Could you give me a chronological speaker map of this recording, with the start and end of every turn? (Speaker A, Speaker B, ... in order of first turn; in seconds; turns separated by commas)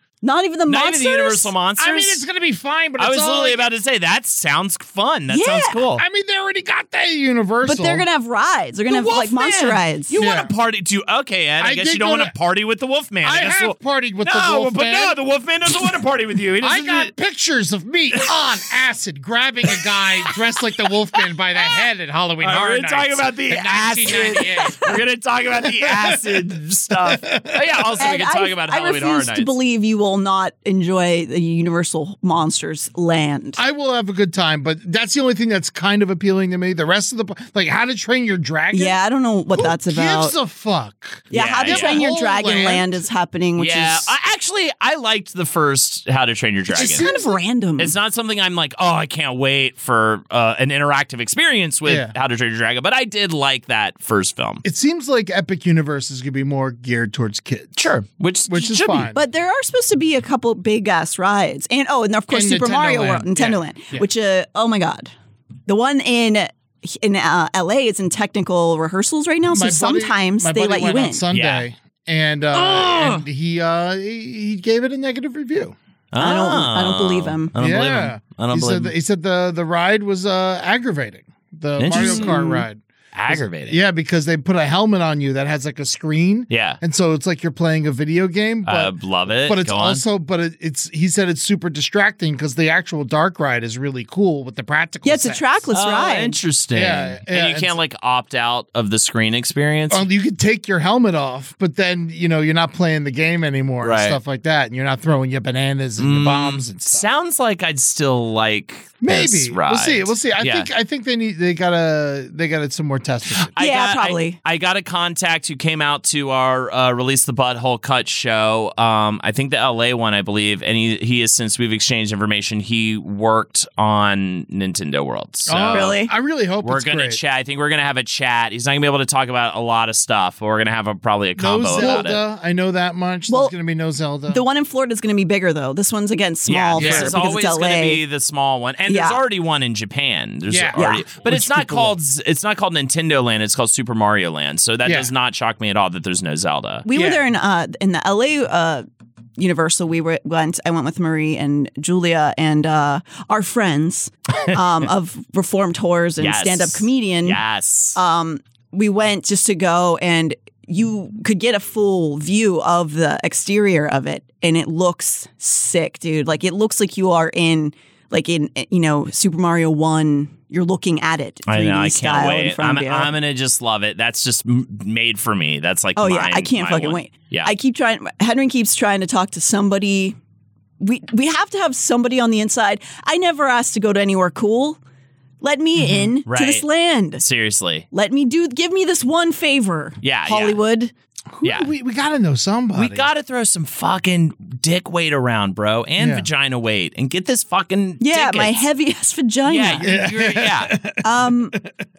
Speaker A: 0.2-1.5, Speaker B: 0.7-2.2, Speaker C: 1.8-3.7, Speaker B: 3.0-6.0, Speaker A: 5.3-5.8, Speaker C: 6.0-8.0, Speaker A: 7.6-10.2, Speaker B: 8.9-17.1, Speaker C: 10.2-10.5, Speaker C: 11.6-12.3, Speaker C: 13.2-15.2, Speaker C: 16.6-24.9, Speaker B: 22.4-29.5, Speaker C: 25.8-27.9, Speaker A: 28.0-33.6, Speaker C: 33.6-39.0, Speaker A: 38.7-40.3, Speaker C: 39.5-43.0, Speaker A: 41.3-44.1, Speaker B: 41.3-42.0, Speaker B: 43.6-47.1, Speaker A: 46.7-47.9, Speaker C: 46.9-47.3, Speaker B: 47.8-54.6, Speaker C: 51.9-52.1, Speaker C: 54.6-57.9, Speaker B: 57.8-59.1, Speaker C: 58.5-59.2, Speaker A: 59.1-65.1, Speaker C: 62.3-64.0, Speaker A: 65.7-71.2, Speaker C: 69.5-75.7, Speaker B: 71.3-71.7, Speaker B: 72.5-73.2, Speaker B: 76.1-78.9, Speaker A: 76.2-77.5, Speaker C: 77.6-95.6, Speaker B: 81.8-82.4, Speaker A: 81.9-82.6, Speaker B: 83.1-83.8, Speaker B: 86.5-86.8, Speaker B: 88.6-90.0, Speaker A: 95.0-96.4, Speaker B: 95.7-100.0, Speaker C: 96.7-97.7, Speaker C: 99.9-107.0, Speaker B: 103.8-104.2, Speaker B: 106.0-110.7, Speaker C: 109.0-113.5, Speaker B: 113.4-126.0, Speaker A: 113.6-114.4, Speaker C: 125.5-127.2, Speaker A: 125.7-126.1, Speaker B: 126.6-132.2, Speaker C: 131.4-134.4, Speaker A: 131.7-132.1, Speaker A: 133.3-133.5, Speaker A: 134.3-138.0, Speaker B: 136.5-146.8, Speaker C: 136.8-137.2, Speaker A: 138.9-139.2, Speaker C: 140.5-141.9, Speaker A: 140.8-141.0, Speaker C: 144.8-145.1, Speaker A: 146.8-148.8, Speaker C: 146.9-147.2, Speaker A: 149.4-157.4, Speaker B: 156.2-158.0, Speaker A: 157.9-173.2, Speaker B: 171.4-177.5, Speaker A: 175.9-180.2, Speaker A: 180.8-184.8, Speaker A: 185.4-187.2, Speaker B: 186.2-186.7, Speaker B: 187.2-187.8, Speaker A: 187.9-190.9, Speaker B: 190.0-190.6, Speaker C: 191.3-193.1, Speaker B: 191.4-191.7, Speaker B: 192.7-198.6, Speaker C: 196.0-196.3, Speaker A: 198.0-199.9, Speaker B: 199.4-200.7, Speaker C: 199.8-201.7, Speaker A: 201.0-201.6